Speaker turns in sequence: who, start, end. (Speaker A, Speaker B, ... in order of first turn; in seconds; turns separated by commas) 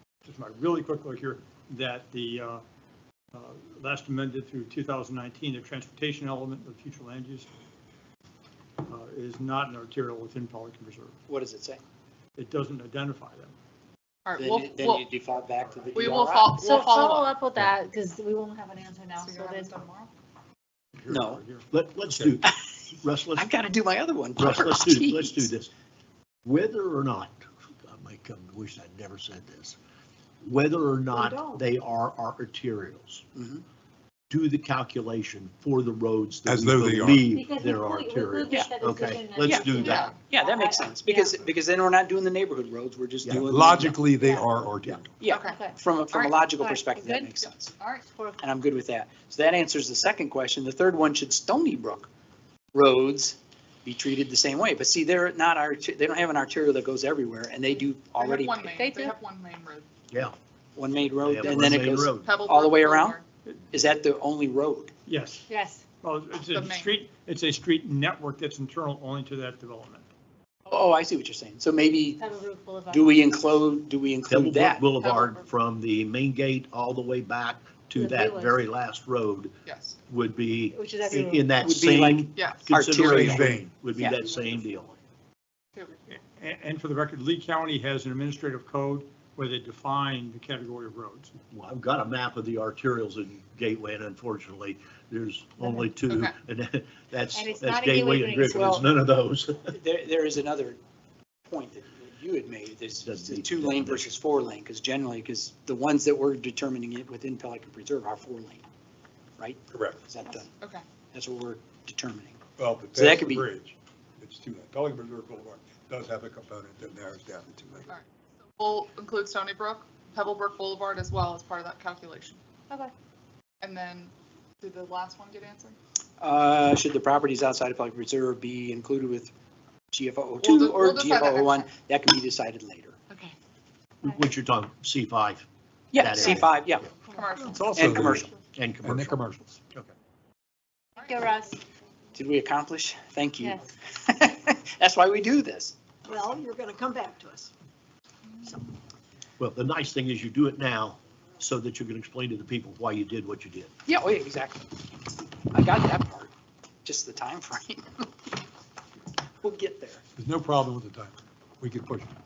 Speaker A: 0.2-2.6, Speaker A: 3.3-7.5, Speaker A: 8.8-11.2, Speaker B: 11.3-11.8, Speaker A: 12.4-13.6, Speaker C: 14.2-15.1, Speaker B: 14.3-16.8, Speaker C: 15.9-17.4, Speaker D: 16.6-19.8, Speaker C: 19.2-20.1, Speaker A: 21.0-21.7, Speaker B: 21.1-21.4, Speaker E: 21.7-23.5, Speaker B: 23.4-25.5, Speaker E: 24.4-25.7, Speaker E: 26.4-29.8, Speaker E: 30.4-33.3, Speaker F: 31.1-31.6, Speaker B: 33.4-33.6, Speaker E: 34.3-40.1, Speaker G: 36.5-37.3, Speaker D: 37.3-41.3, Speaker B: 39.4-44.0, Speaker C: 39.8-40.2, Speaker G: 43.3-45.2, Speaker D: 44.2-44.5, Speaker E: 44.6-45.0, Speaker B: 45.2-47.8, Speaker C: 45.2-46.5, Speaker D: 45.4-45.8, Speaker D: 46.5-47.3, Speaker C: 47.4-48.1, Speaker D: 48.1-48.4, Speaker B: 48.4-52.1, Speaker B: 52.7-58.9, Speaker C: 58.1-59.9, Speaker D: 58.8-59.1, Speaker E: 60.1-60.4, Speaker B: 60.8-64.9, Speaker E: 61.2-62.3, Speaker C: 61.4-63.2, Speaker A: 65.1-65.5, Speaker D: 65.5-65.8, Speaker A: 66.0-70.1, Speaker C: 66.5-67.0, Speaker B: 70.7-72.2, Speaker D: 72.2-73.3, Speaker B: 72.9-74.9, Speaker E: 74.3-79.6, Speaker C: 75.0-75.5, Speaker D: 78.0-78.6, Speaker C: 79.7-80.0, Speaker E: 80.1-85.0, Speaker D: 80.7-81.5, Speaker B: 81.6-83.7, Speaker C: 82.3-82.7, Speaker G: 82.9-83.7, Speaker D: 84.0-84.3, Speaker A: 86.1-91.3, Speaker E: 91.5-99.8, Speaker C: 96.1-96.3, Speaker D: 97.3-98.8, Speaker B: 98.5-98.8, Speaker B: 99.8-100.8, Speaker B: 101.5-108.6, Speaker E: 103.0-104.1, Speaker B: 109.4-110.5, Speaker G: 109.7-110.1, Speaker C: 110.6-110.8, Speaker B: 111.1-112.4, Speaker G: 112.6-117.9, Speaker B: 112.9-113.5, Speaker C: 117.9-122.9, Speaker C: 123.6-125.8, Speaker B: 126.2-129.3, Speaker B: 129.9-133.0, Speaker C: 130.4-131.7, Speaker C: 133.1-133.4, Speaker E: 134.0-136.9, Speaker B: 135.9-136.8, Speaker C: 137.1-138.4, Speaker G: 137.6-138.3, Speaker B: 137.7-138.3, Speaker E: 137.9-139.2, Speaker G: 138.8-139.6, Speaker C: 141.0-141.4, Speaker D: 141.0-141.6, Speaker B: 142.2-145.7, Speaker F: 146.1-147.5, Speaker F: 148.4-148.7, Speaker E: 149.4-153.7, Speaker B: 153.9-154.9, Speaker B: 155.5-156.3, Speaker B: 156.8-158.1, Speaker B: 159.4-160.0, Speaker G: 160.2-162.1